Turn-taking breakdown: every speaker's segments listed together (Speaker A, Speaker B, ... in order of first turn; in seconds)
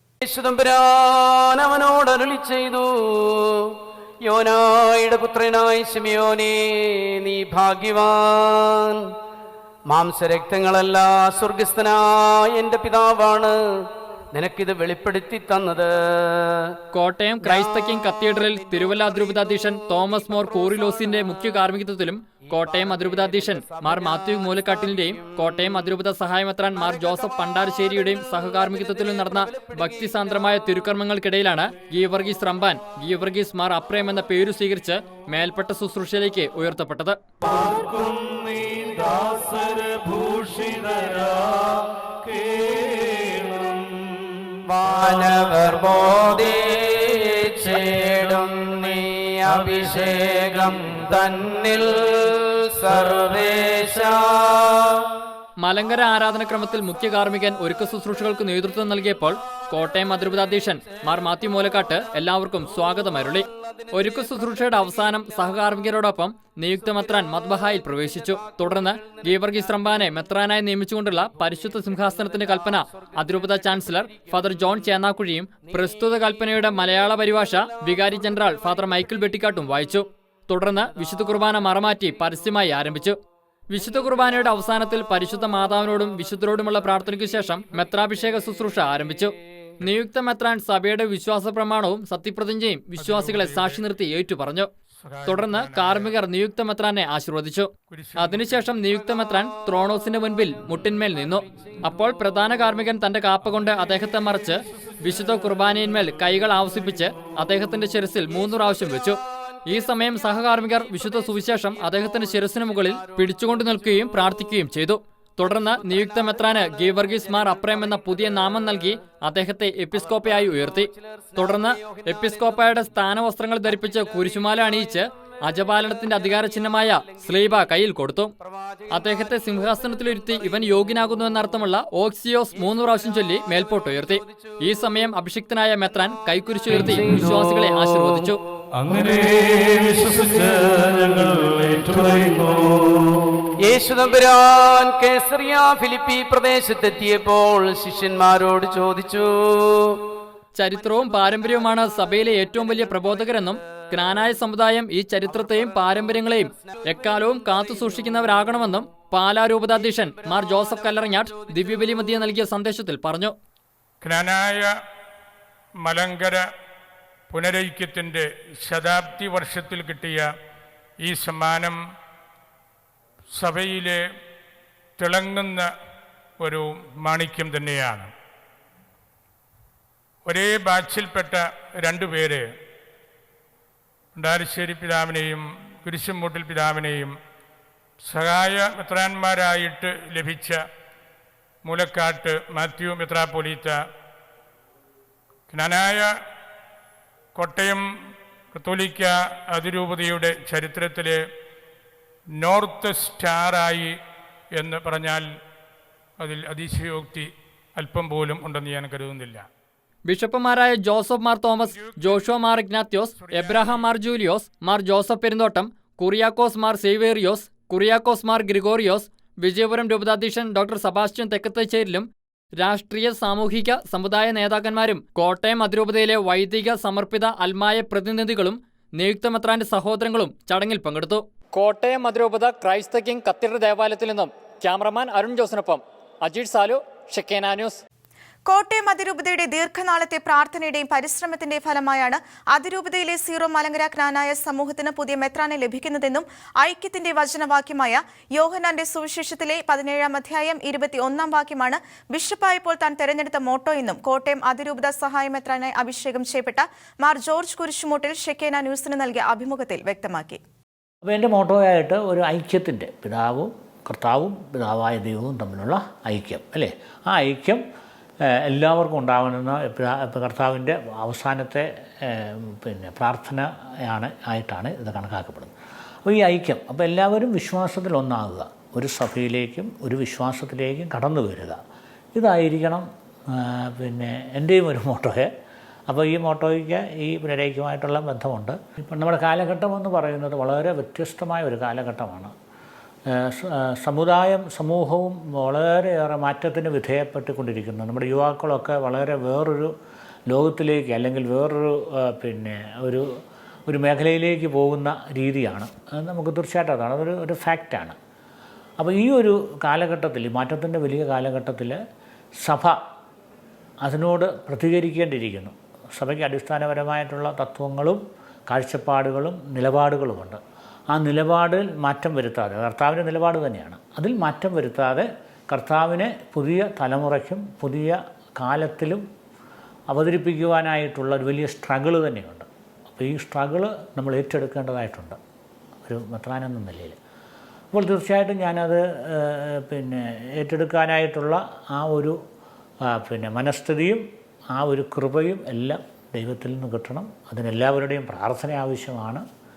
Speaker A: 0.2-9.1, 9.9-16.8, 17.4-17.9, 18.7-21.5, 22.4-25.9, 26.7-30.7, 44.6-55.1, 62.8-65.6, 66.8-70.1, 71.4-74.9, 75.7-76.1, 78.0-78.6, 83.9-84.3, 108.3-114.5, 115.7-118.7, 119.9-123.0, 123.7-125.0, 125.5-127.6, 128.4-130.9, 132.6-134.6, 136.7-138.2, 143.6-150.0, 152.6-153.9, 155.4-156.2, 156.9-158.3, 160.5-161.9
Speaker B: 16.9-37.2, 55.6-83.2, 83.7-94.7, 95.2-128.3, 128.9-138.4, 150.5-163.3, 210.1-237.8
Speaker C: 37.4-45.6, 46.1-46.8, 47.5-51.2, 52.8-54.0, 138.8-143.2
Speaker D: 93.0-93.8, 95.0-96.1, 97.9-98.5, 164.0-164.7, 165.8-166.4, 167.3-170.2, 171.0-171.8, 173.3-174.0, 175.0-175.7, 176.4-178.1, 180.2-182.4, 184.1-187.1, 188.0-190.6, 191.6-193.8, 195.5-196.1, 197.3-197.8, 198.5-201.2, 202.4-203.9, 204.6-205.2, 206.2-209.4, 213.3-213.7
Speaker E: 238.5-260.4
Speaker F: 261.0-267.6, 268.2-275.5, 276.0-281.6, 282.1-285.3, 285.9-292.3, 293.1-299.7, 300.3-303.1, 303.7-307.9, 308.8-311.8, 312.4-312.8, 313.8-329.0, 329.9-335.2, 335.8-337.0, 337.7-342.2, 342.8-349.2